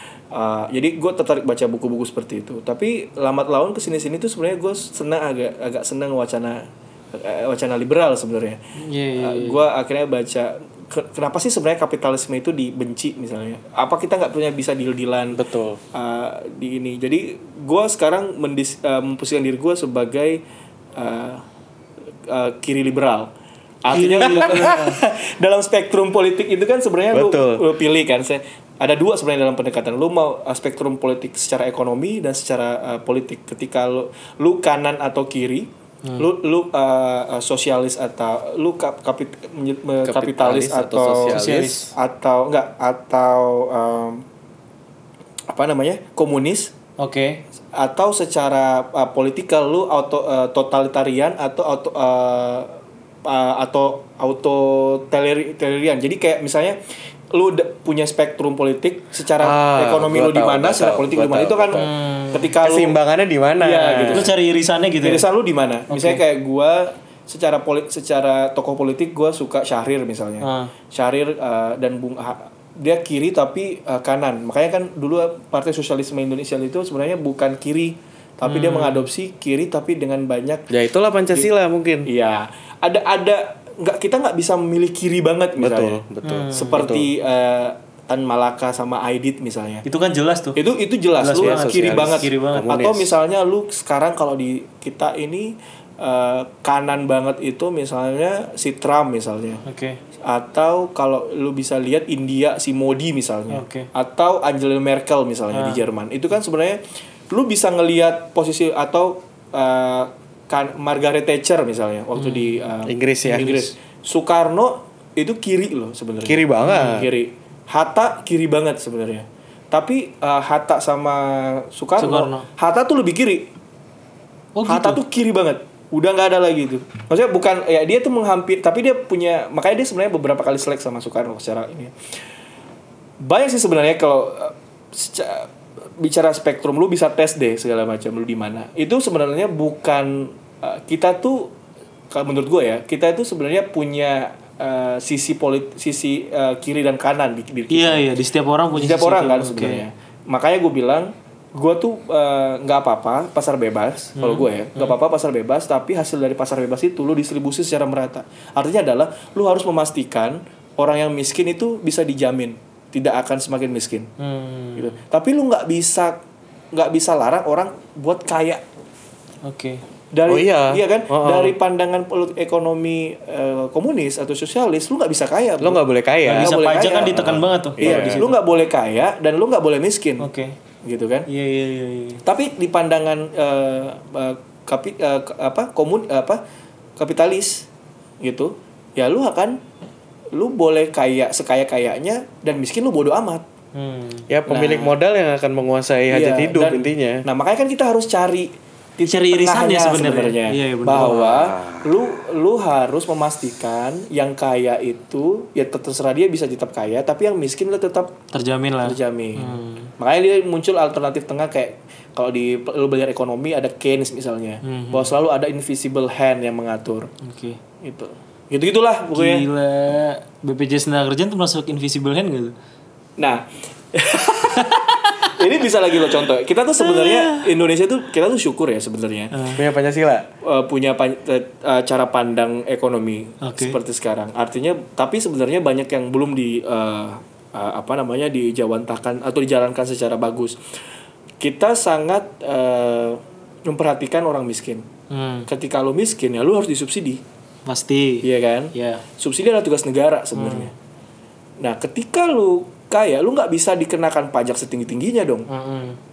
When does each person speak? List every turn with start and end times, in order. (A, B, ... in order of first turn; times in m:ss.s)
0:00.3-0:08.6 A
0:08.8-0:09.6 B
0:09.2-0:15.4 A
0:15.3-0:15.8 C
0:15.9-0:20.4 A
0:21.0-0:21.4 A
0:22.3-0:23.3 A
0:23.8-0:44.2 A
0:23.9-0:24.9 B
0:24.4-0:24.8 C
0:27.1-0:27.6 C
0:40.0-0:41.8 C
0:41.3-0:41.9 B
0:45.5-0:46.7 A
0:47.0-0:47.4 B
0:47.8-0:52.7 A
0:53.2-0:56.8 A
0:57.3-1:03.0 A
0:59.4-1:01.9 C
1:01.8-1:02.5 B
1:02.6-1:04.3 C
1:03.6-1:04.3 A
1:04.1-1:05.2 B
1:05.0-1:20.7 A
1:05.9-1:06.2 B
1:10.4-1:10.7 B
1:18.4-1:19.1 B
1:20.7-1:22.1 C
1:22.1-1:29.8 A
1:25.6-1:27.1 C
1:26.2-1:26.8 B
1:29.8-1:30.6 B
1:30.6-1:39.6 A
1:31.2-1:32.8 B
1:31.4-1:33.1 C
1:39.7-1:40.0 B
1:40.2-2:03.5 A
1:43.5-1:43.9 B
1:45.5-1:45.8 B
1:52.2-1:52.7 B
1:52.9-1:53.7 C
1:56.2-1:57.1 C
1:56.6-1:56.9 B
2:02.0-2:02.5 B
2:04.6-2:05.0 B
2:04.7-2:11.9 A
2:13.2-2:21.5 A
2:22.1-2:28.0 A
2:27.7-2:29.8 B
2:28.7-2:44.1 A
2:34.2-2:35.0 B
2:44.2-2:45.0 B
2:44.8-2:46.2 A
2:46.7-2:48.6 A
2:49.4-2:49.8 B
2:50.1-3:00.3 A
2:50.3-2:51.6 C
2:55.6-2:58.3 C
2:56.3-2:58.4 B
3:00.2-3:00.6 B
3:00.8-3:01.3 A
3:01.3-3:02.2 B
3:02.2-3:06.4 A
3:07.0-3:07.7 A
3:08.2-3:09.6 A
3:10.3-3:13.4 A
3:13.7-3:14.9 B
3:14.3-3:17.2 C
3:16.1-3:28.2 A
3:19.0-3:21.5 B
3:21.0-3:22.0 C
3:28.3-3:29.9 B
3:28.8-3:37.1 A
3:34.6-3:35.1 B
3:37.2-3:37.6 B
3:37.8-3:39.4 A
3:39.1-3:42.5 B
3:43.2-3:49.5 A
3:44.4-3:45.3 B
3:46.8-3:47.5 B
3:49.3-3:49.6 B
3:49.6-3:50.3 C
3:50.4-4:00.6 A
3:53.4-3:53.8 B
4:01.4-4:04.9 A
4:05.1-4:05.5 B
4:05.5-4:07.2 A
4:07.7-4:09.0 B
4:08.2-4:10.7 A
4:10.4-4:10.7 B
4:11.6-4:15.5 A
4:15.5-4:16.0 B